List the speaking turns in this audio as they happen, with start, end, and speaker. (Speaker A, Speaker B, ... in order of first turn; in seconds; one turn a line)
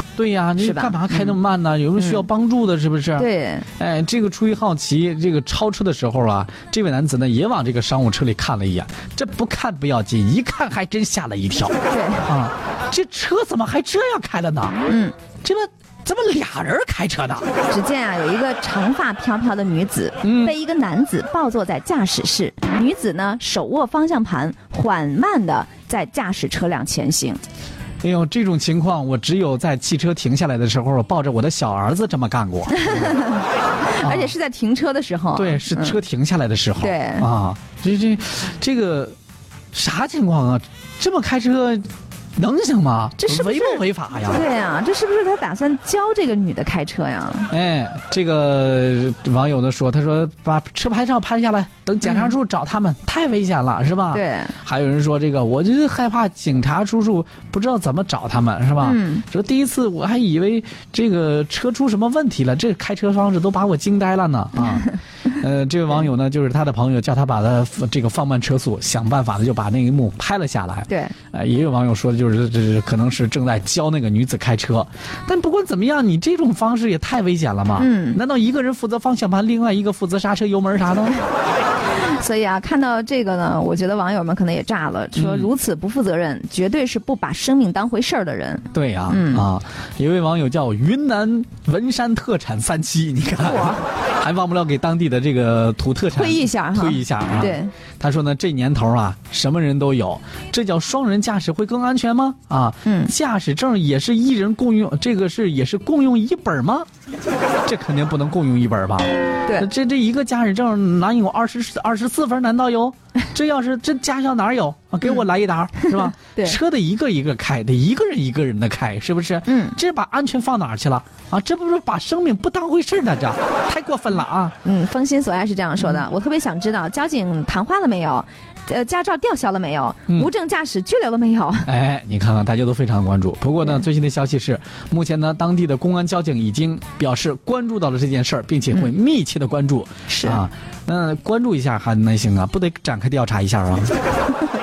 Speaker A: 0.2-3.3
Speaker B: 0.6-1.4
Speaker B: 2.0-2.2
Speaker B: 3.2-3.7
Speaker A: 3.8-14.8
Speaker B: 11.9-12.2
Speaker B: 14.9-15.2
Speaker A: 15.4-17.5
Speaker B: 17.7-27.4
Speaker A: 20.2-20.6
Speaker A: 28.0-33.1
Speaker B: 32.8-36.0
Speaker A: 34.0-34.3
Speaker A: 35.4-39.2
Speaker B: 36.8-37.3
Speaker A: 39.7-44.5
Speaker B: 43.2-47.5
Speaker A: 47.5-81.2
Speaker B: 52.0-52.3
Speaker B: 54.1-54.5
Speaker B: 58.8-59.2
Speaker B: 70.9-71.2
Speaker B: 77.8-78.2
Speaker B: 81.9-89.4
Speaker A: 85.2-85.5
Speaker A: 88.7-106.9
Speaker B: 93.5-93.8
Speaker B: 96.1-97.7
Speaker B: 102.8-103.1
Speaker A: 107.7-124.6
Speaker B: 115.8-116.6
Speaker B: 119.5-119.8
Speaker B: 124.7-131.7
Speaker A: 131.7-143.9
Speaker B: 140.1-140.4